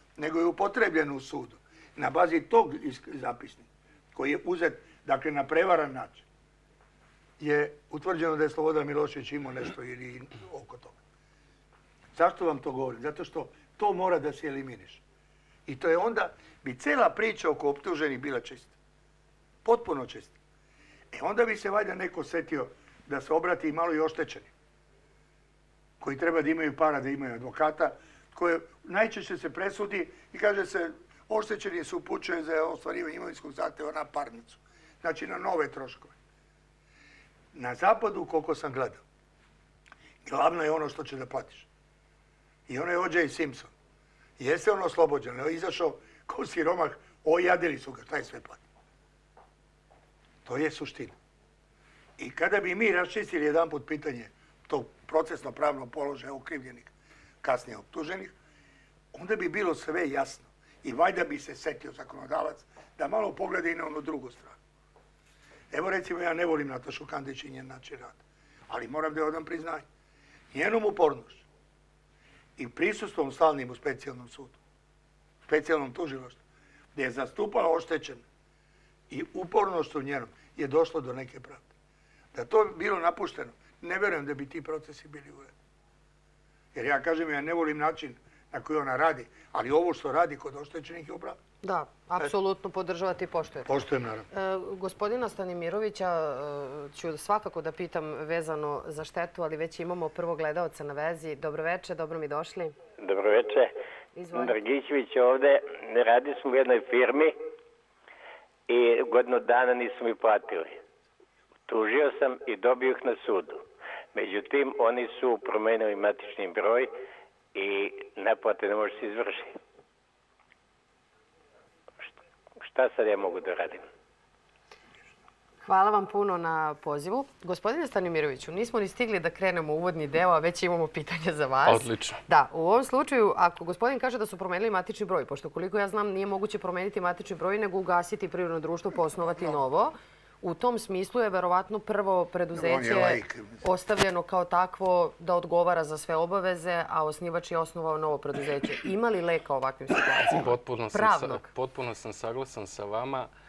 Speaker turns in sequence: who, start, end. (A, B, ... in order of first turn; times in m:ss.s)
0:00.2-0:06.2 A
0:07.4-0:11.0 A
0:12.1-0:15.0 A
0:15.7-0:18.7 A
0:19.6-0:20.4 A
0:21.1-0:24.5 A
0:26.0-0:36.2 A
0:37.5-0:39.0 A
0:40.2-0:41.7 A
0:42.7-0:43.7 A
0:44.4-0:48.6 A
0:50.4-0:51.2 A
0:52.2-0:58.3 A
0:59.1-1:04.6 A
1:05.7-1:09.8 A
1:10.5-1:11.4 A
1:12.6-1:14.6 A
1:15.5-1:16.4 A
1:16.9-1:18.2 A
1:19.1-1:21.7 A
1:22.3-1:25.5 A
1:26.7-1:31.4 A
1:31.6-1:33.8 B
1:33.7-1:34.3 A
1:34.3-1:42.8 B
1:43.0-1:43.7 C
1:44.2-1:44.6 B
1:44.3-1:47.4 C
1:48.7-1:50.8 C
1:51.7-1:53.6 C
1:54.1-1:56.9 C
1:57.5-1:59.6 C
2:02.6-2:03.9 C
2:05.6-2:31.5 B
2:11.6-2:12.2 D
2:22.5-2:23.6 A
2:30.3-2:33.3 D